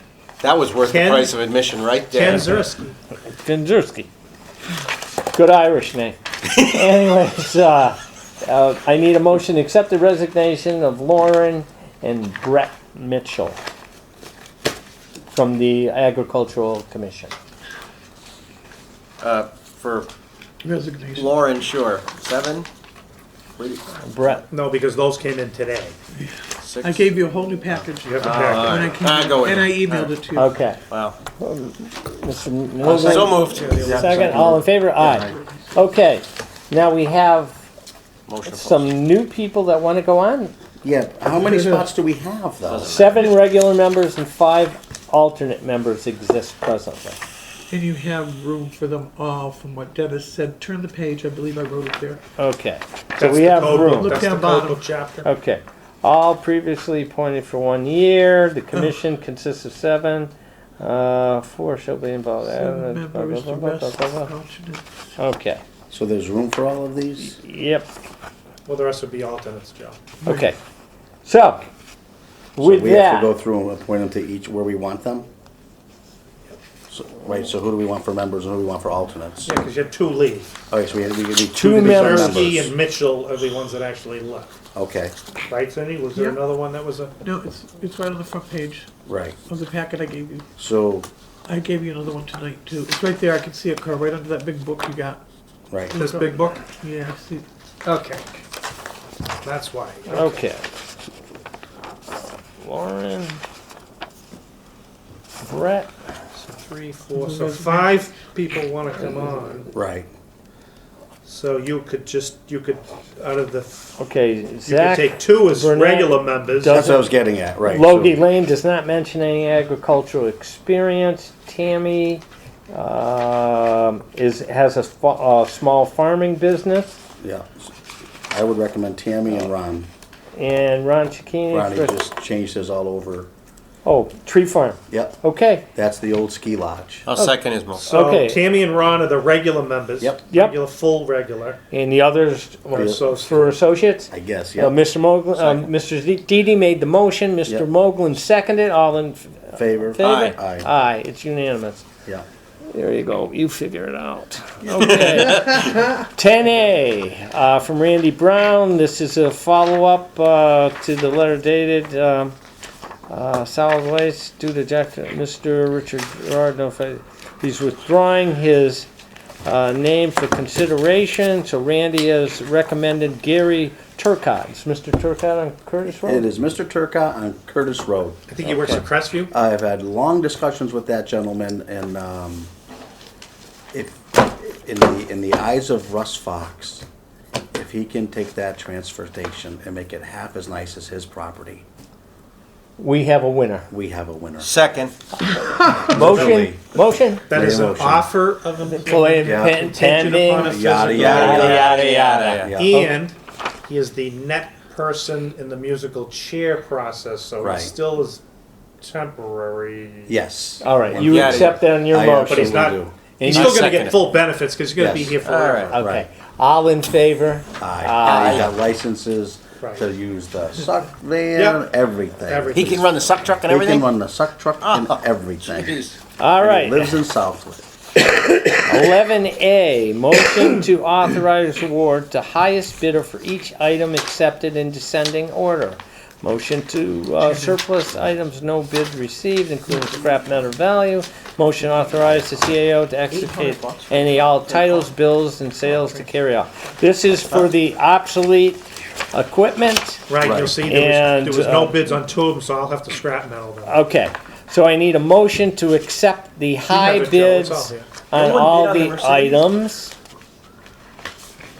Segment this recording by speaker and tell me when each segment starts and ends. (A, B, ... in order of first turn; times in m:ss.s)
0:00.4-0:02.6 A
0:00.8-0:01.3 B
0:02.1-0:03.0 B
0:03.3-0:04.1 C
0:05.3-0:13.6 C
0:15.3-0:17.3 C
0:19.2-0:20.1 A
0:20.6-0:21.4 D
0:21.1-0:22.7 A
0:23.6-0:23.9 A
0:24.0-0:24.4 C
0:24.5-0:26.0 B
0:26.1-0:30.6 D
0:26.6-0:27.1 A
0:28.0-0:28.9 B
0:28.2-0:30.2 A
0:30.3-0:30.8 C
0:30.9-0:31.2 A
0:31.4-0:37.6 C
0:32.8-0:33.9 A
0:33.0-0:34.5 B
0:33.8-0:35.3 E
0:38.3-0:38.9 A
0:38.4-0:40.5 C
0:40.8-0:42.9 E
0:41.4-0:41.9 D
0:42.6-0:43.4 A
0:42.8-0:47.2 C
0:47.7-0:52.2 D
0:52.4-0:54.2 C
0:53.2-0:55.3 B
0:53.5-0:54.8 D
0:55.2-1:04.3 C
1:02.4-1:05.0 D
1:05.2-1:05.6 C
1:05.9-1:07.4 E
1:07.3-1:07.9 C
1:08.6-1:10.1 B
1:10.2-1:10.5 D
1:10.2-1:10.6 C
1:11.2-1:11.7 C
1:12.6-1:13.3 C
1:12.6-1:15.3 E
1:16.9-1:19.5 E
1:19.4-1:20.5 B
1:20.7-1:22.7 E
1:21.5-1:22.6 C
1:21.7-1:24.5 B
1:24.7-1:25.1 E
1:25.5-1:27.2 B
1:26.2-1:26.4 D
1:27.2-1:28.9 D
1:29.0-1:29.4 E
1:29.4-1:30.4 D
1:30.6-1:31.1 E
1:31.5-1:35.2 D
1:35.7-1:36.0 E
1:35.9-1:37.4 D
1:36.0-1:36.6 B
1:37.8-1:38.2 B
1:39.4-1:40.4 B
1:40.1-1:40.6 C
1:42.6-1:43.4 C
1:45.4-1:45.9 C
1:46.3-1:49.7 B
1:47.1-1:47.9 D
1:49.7-1:50.1 E
1:51.2-1:53.9 B
1:54.0-1:57.1 C
1:54.6-1:56.9 B
1:56.7-1:58.2 E
1:57.6-2:07.0 C
2:07.2-2:07.8 E
2:08.3-2:09.9 E
2:10.4-2:12.0 C
2:11.5-2:13.3 E
2:13.8-2:15.7 C
2:14.9-2:15.2 E
2:15.7-2:17.1 E
2:17.0-2:17.8 A
2:17.7-2:21.6 B
2:17.9-2:18.4 C
2:21.7-2:31.8 C
2:22.7-2:23.5 B
2:22.7-2:23.0 E
2:24.1-2:24.8 E
2:29.5-2:30.7 E
2:30.0-2:30.3 A
2:32.7-2:42.4 C
2:34.7-2:35.4 A
2:43.1-2:48.9 C
2:49.4-2:56.3 C
2:56.0-2:58.7 E
2:58.3-2:59.3 B
2:59.3-3:02.5 E
3:03.7-3:06.8 E
3:07.5-3:11.6 E
3:12.8-3:13.7 C
3:13.7-3:14.5 E
3:14.4-3:14.9 A
3:15.7-3:16.7 E
3:15.8-3:17.2 C
3:15.9-3:16.4 B
3:17.3-3:21.5 B
3:17.3-3:18.1 E
3:18.7-3:22.8 C
3:19.2-3:19.6 E
3:20.3-3:21.8 E
3:20.9-3:22.6 A
3:22.4-3:22.8 E
3:22.5-3:28.2 B
3:27.4-3:27.7 E
3:28.8-3:30.2 B
3:30.1-3:33.0 E
3:30.6-3:33.7 C
3:31.0-3:31.6 A
3:32.3-3:35.8 B
3:33.2-3:34.1 A
3:34.8-3:35.2 E
3:35.2-3:35.8 A
3:35.7-3:38.5 C
3:35.7-3:36.0 E
3:37.6-3:42.7 E
3:38.0-3:38.5 A
3:39.6-3:39.9 B
3:41.3-3:41.6 B
3:42.3-3:43.0 B
3:42.5-3:43.9 A
3:43.5-3:45.8 E
3:44.6-3:46.0 A
3:46.2-3:47.0 C
3:46.4-3:47.6 E
3:48.6-4:10.0 C
3:57.2-3:57.6 D
4:03.1-4:04.8 A
4:10.1-4:13.8 B
4:10.2-4:10.6 E
4:10.6-4:11.8 C
4:13.6-4:19.9 C
4:16.7-4:17.9 B
4:18.1-4:19.4 A